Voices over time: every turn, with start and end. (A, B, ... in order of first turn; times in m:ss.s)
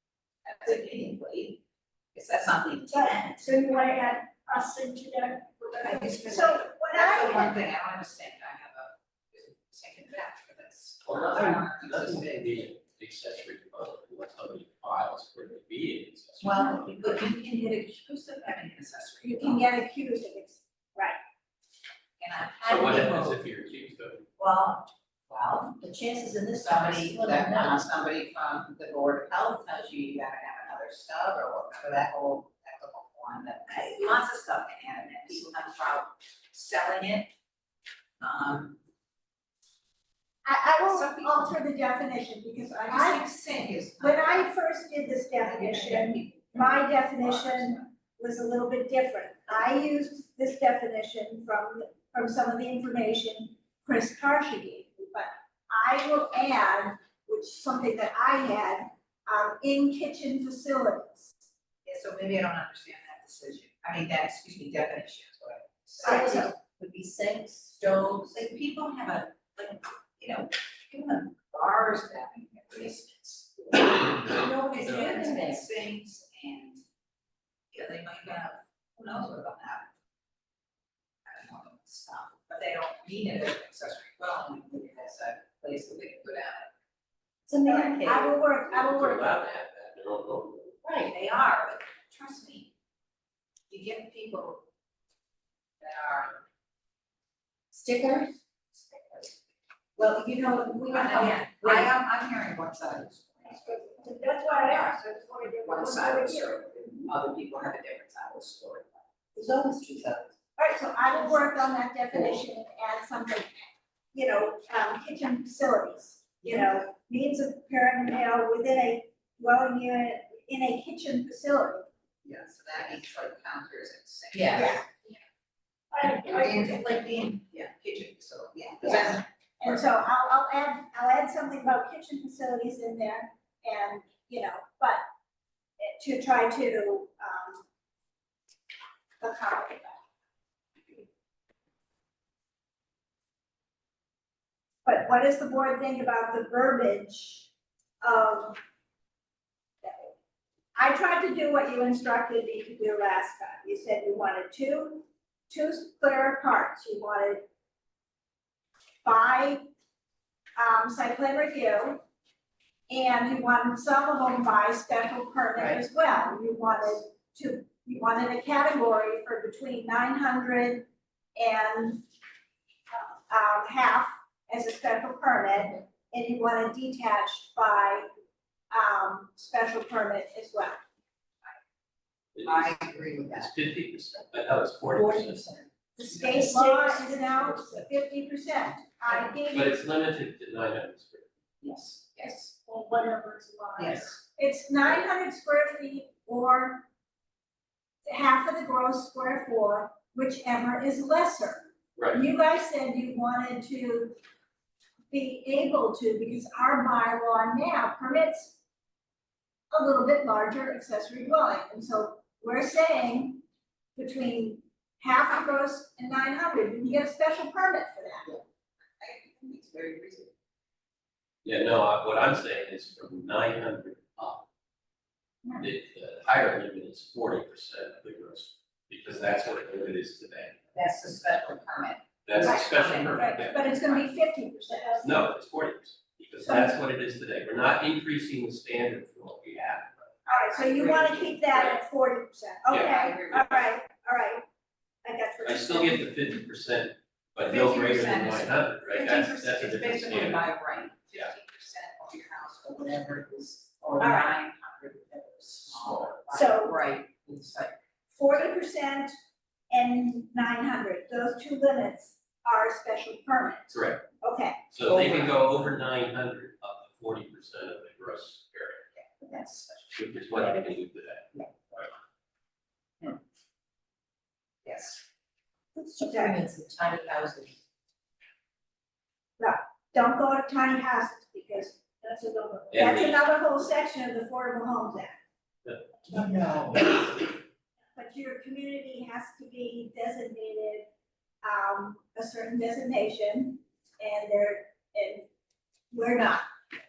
0:00.4-0:01.6 A
0:02.1-0:03.5 A
0:03.0-0:07.6 B
0:05.7-0:12.7 A
0:11.0-0:17.2 C
0:16.4-0:19.6 A
0:19.2-0:21.2 B
0:22.2-0:23.0 A
0:22.6-0:23.4 D
0:22.6-0:24.2 C
0:24.4-0:25.8 A
0:25.8-0:27.9 D
0:26.6-0:37.3 A
0:38.2-0:38.8 A
0:40.4-0:43.3 B
0:40.8-0:41.5 A
0:42.8-0:44.5 A
0:44.0-1:01.4 B
0:45.3-0:47.9 A
1:01.8-1:06.4 A
1:06.0-1:08.4 D
1:06.0-1:06.5 B
1:08.2-1:16.8 A
1:14.3-1:15.6 D
1:17.7-1:19.9 A
1:21.2-1:26.7 A
1:27.5-1:28.4 D
1:27.6-1:29.4 B
1:28.7-1:30.8 C
1:30.8-1:31.1 D
1:31.0-1:32.7 A
1:33.7-1:34.6 A
1:35.8-1:36.4 A
1:37.7-1:38.4 D
1:40.0-1:41.9 D
1:40.9-1:44.0 A
1:43.6-1:46.6 B
1:44.7-1:44.9 A
1:45.6-1:49.0 A
1:49.3-1:50.3 D
1:50.6-2:01.9 B
2:02.2-2:04.8 A
2:04.3-2:04.8 D
2:04.5-2:04.8 B
2:05.9-2:06.7 B
2:06.0-2:09.8 A
2:06.0-2:07.2 D
2:09.6-2:15.0 B
2:15.8-2:17.6 B
2:19.2-2:20.0 B
2:24.8-2:27.5 B
2:28.0-2:28.6 B
2:29.8-2:30.1 B
2:30.7-2:37.4 B
2:39.0-2:39.6 B
2:40.6-2:42.0 B
2:42.9-2:52.0 B
2:52.9-2:58.0 B
2:58.7-3:00.8 B
3:02.3-3:05.4 C
3:02.4-3:03.5 A
3:04.9-3:07.8 D
3:06.0-3:09.8 B
3:09.5-3:11.2 C
3:11.6-3:12.4 A
3:12.2-3:16.8 B
3:13.8-3:14.2 A
3:18.0-3:24.2 B
3:22.0-3:22.2 C
3:25.1-3:28.6 B
3:29.7-3:33.4 B
3:34.0-3:38.3 B
3:39.0-3:40.3 A
3:41.4-3:44.4 C
3:45.6-3:50.6 C
3:50.7-3:53.3 A
3:52.2-3:54.1 C
3:52.4-3:55.2 B
3:55.0-4:00.1 C
3:56.4-3:56.7 B
4:00.2-4:01.6 A
4:00.3-4:04.4 B
4:02.7-4:03.7 A
4:05.0-4:06.1 B
4:05.4-4:10.5 C
4:07.4-4:17.8 A
4:14.0-4:14.3 B
4:16.3-4:16.8 B
4:18.1-4:19.1 B
4:19.7-4:24.6 B
4:23.7-4:24.0 C
4:24.7-4:28.8 C
4:29.0-4:29.9 A
4:29.9-4:31.9 C
4:34.6-4:35.0 A
4:35.8-4:37.6 D
4:36.0-4:36.3 B
4:39.4-4:45.2 B
4:42.7-4:43.2 C
4:46.1-4:47.2 D
4:47.9-4:50.9 B
4:51.4-4:55.3 B
4:55.9-4:56.4 B